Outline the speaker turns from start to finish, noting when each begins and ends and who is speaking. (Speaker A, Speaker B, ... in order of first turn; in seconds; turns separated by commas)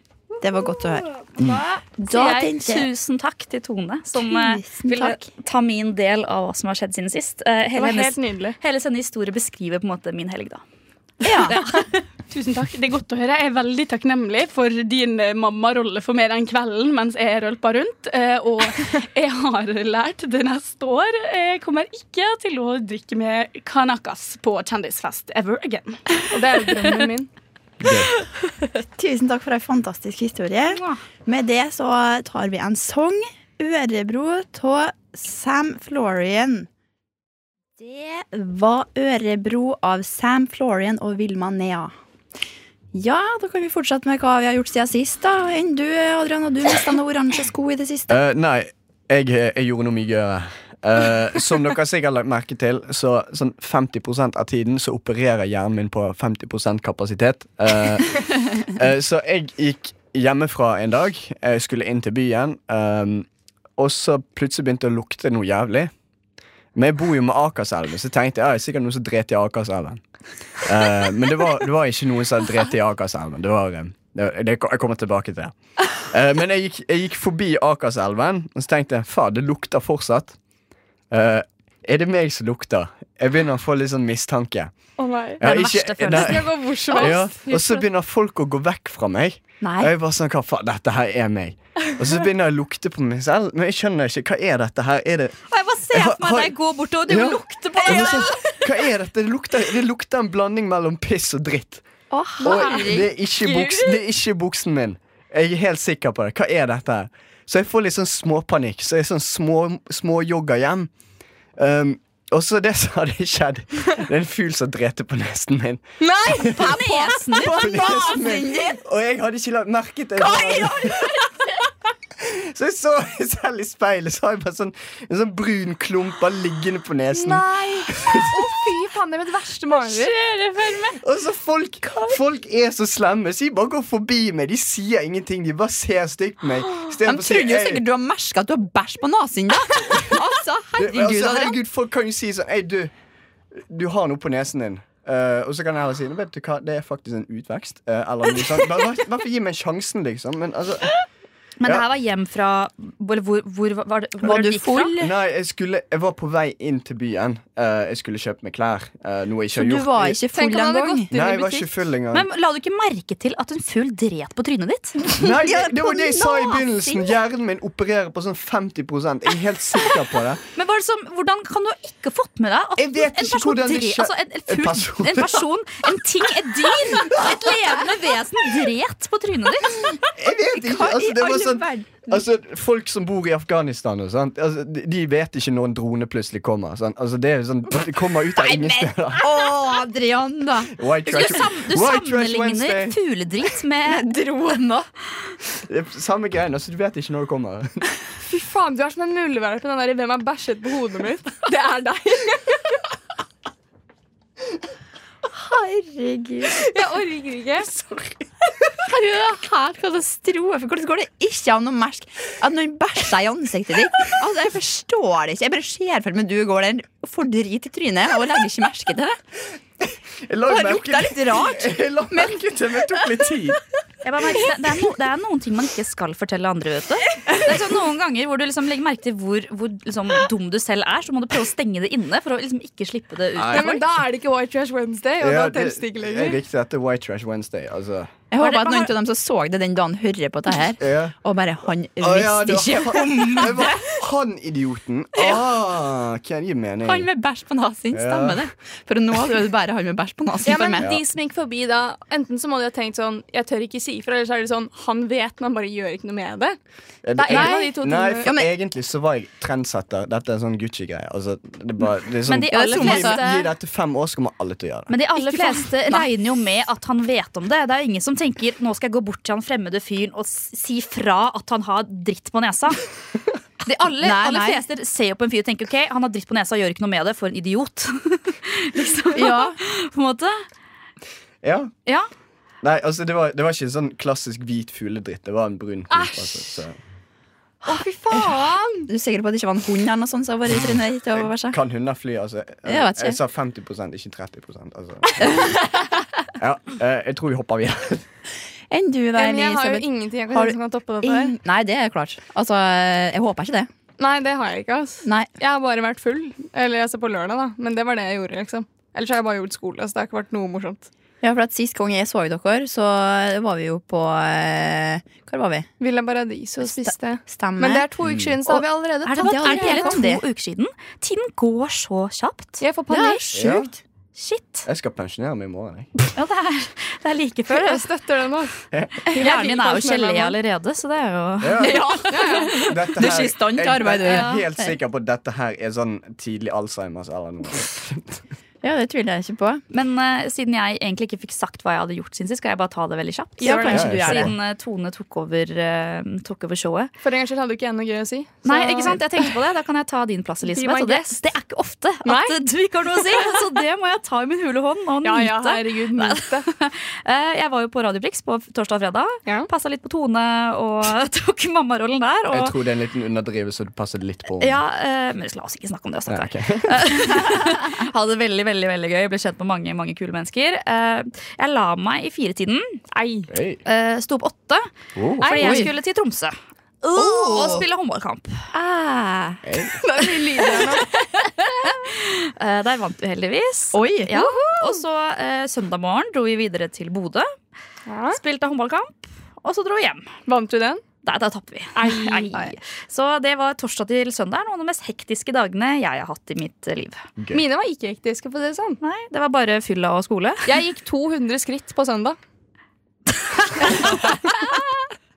Speaker A: 0.4-1.1, Speaker B: 0.6-10.6, Speaker A: 2.0-2.9, Speaker A: 4.2-5.3, Speaker C: 7.8-8.6, Speaker A: 11.2-11.7, Speaker D: 12.3-26.2, Speaker C: 26.3-27.3, Speaker E: 27.8-28.1, Speaker A: 28.8-36.7, Speaker B: 30.7-31.0, Speaker A: 37.8-41.9, Speaker A: 42.9-48.2, Speaker E: 48.1-65.9, Speaker E: 66.7-70.0, Speaker E: 70.6-80.4, Speaker E: 81.1-84.7, Speaker C: 85.0-85.4, Speaker E: 85.4-101.8, Speaker B: 85.4-86.4, Speaker C: 86.1-87.8, Speaker A: 89.6-89.9, Speaker B: 95.5-98.5, Speaker A: 102.1-103.1, Speaker E: 102.4-110.9, Speaker E: 111.6-116.5, Speaker C: 116.0-116.5, Speaker A: 116.3-118.8, Speaker B: 116.4-117.7, Speaker E: 117.3-121.2, Speaker E: 122.2-128.3, Speaker C: 127.1-130.2, Speaker D: 129.9-130.9, Speaker E: 131.0-137.8, Speaker A: 137.0-141.5, Speaker E: 139.8-140.2, Speaker E: 140.8-142.9, Speaker E: 143.5-150.9, Speaker B: 151.6-154.9, Speaker A: 154.2-155.1, Speaker E: 155.0-160.2, Speaker A: 159.5-161.1, Speaker C: 160.3-161.7, Speaker E: 161.1-162.3, Speaker B: 162.1-165.0, Speaker A: 165.0-167.1, Speaker E: 165.2-170.4, Speaker B: 170.6-180.0, Speaker E: 172.8-175.5, Speaker E: 180.2-189.5, Speaker A: 180.5-182.2, Speaker A: 188.4-190.7, Speaker E: 190.7-193.0, Speaker B: 191.1-194.0, Speaker A: 193.9-194.9, Speaker E: 195.7-197.9, Speaker C: 198.3-202.6, Speaker A: 205.3-206.7, Speaker C: 206.5-207.8, Speaker A: 208.8-219.2, Speaker E: 220.2-223.6, Speaker A: 220.5-222.4, Speaker B: 224.0-233.8, Speaker E: 233.4-233.8, Speaker C: 233.5-236.4, Speaker E: 235.2-238.1, Speaker A: 238.3-244.0, Speaker B: 238.4-238.9, Speaker E: 240.8-241.2, Speaker E: 242.0-247.1, Speaker A: 245.2-245.4, Speaker A: 246.8-250.9, Speaker E: 247.9-248.5, Speaker C: 250.4-256.6, Speaker E: 257.0-264.9, Speaker C: 257.2-258.3, Speaker A: 257.3-258.5, Speaker B: 262.2-263.5, Speaker A: 262.5-263.2, Speaker B: 264.9-272.9, Speaker A: 265.2-266.1, Speaker B: 273.6-280.4, Speaker A: 274.0-274.6, Speaker A: 279.1-279.6, Speaker E: 281.4-281.7, Speaker E: 282.6-286.8, Speaker C: 285.9-286.4, Speaker C: 287.6-288.9, Speaker A: 287.7-291.6, Speaker E: 290.6-295.4, Speaker A: 292.7-293.2, Speaker A: 295.2-295.9, Speaker E: 296.4-298.1, Speaker A: 298.7-303.7, Speaker C: 299.1-301.4, Speaker C: 304.0-310.9, Speaker A: 305.0-305.3, Speaker A: 311.2-315.7, Speaker C: 315.8-320.0, Speaker A: 316.6-317.9, Speaker E: 318.0-318.4, Speaker A: 318.5-320.2, Speaker B: 319.0-322.6, Speaker C: 322.6-323.5, Speaker A: 322.9-323.8, Speaker E: 323.4-323.7, Speaker B: 324.1-324.7, Speaker E: 324.7-326.0, Speaker B: 326.1-327.9, Speaker C: 327.5-328.6, Speaker E: 328.7-329.0, Speaker C: 329.1-330.4, Speaker B: 329.1-332.6, Speaker E: 331.4-332.0, Speaker A: 331.6-334.7, Speaker C: 332.1-332.6, Speaker E: 332.6-338.2, Speaker B: 334.1-334.4, Speaker A: 338.6-339.6, Speaker B: 339.7-346.9, Speaker A: 343.4-344.3, Speaker C: 343.4-343.8, Speaker E: 343.7-344.3, Speaker C: 347.0-349.3, Speaker B: 348.4-362.6, Speaker C: 350.4-351.2, Speaker C: 352.1-352.4, Speaker C: 355.0-356.5, Speaker E: 362.3-364.6, Speaker B: 364.4-372.8, Speaker E: 366.1-367.3, Speaker C: 372.9-373.3, Speaker E: 373.3-373.6, Speaker B: 373.6-374.7, Speaker E: 374.9-375.4, Speaker B: 375.2-378.4, Speaker C: 375.2-375.6, Speaker A: 375.4-375.7, Speaker A: 376.9-377.7, Speaker A: 378.5-379.4, Speaker E: 379.4-379.8, Speaker C: 379.8-380.9, Speaker B: 381.6-387.3, Speaker A: 383.7-384.1, Speaker C: 384.1-384.8, Speaker C: 387.9-388.2, Speaker B: 388.1-390.1, Speaker C: 390.3-390.8, Speaker B: 391.0-397.1, Speaker C: 391.8-392.3, Speaker C: 397.3-398.8, Speaker B: 398.8-400.6, Speaker C: 400.5-402.2, Speaker B: 403.3-404.2, Speaker C: 403.8-404.1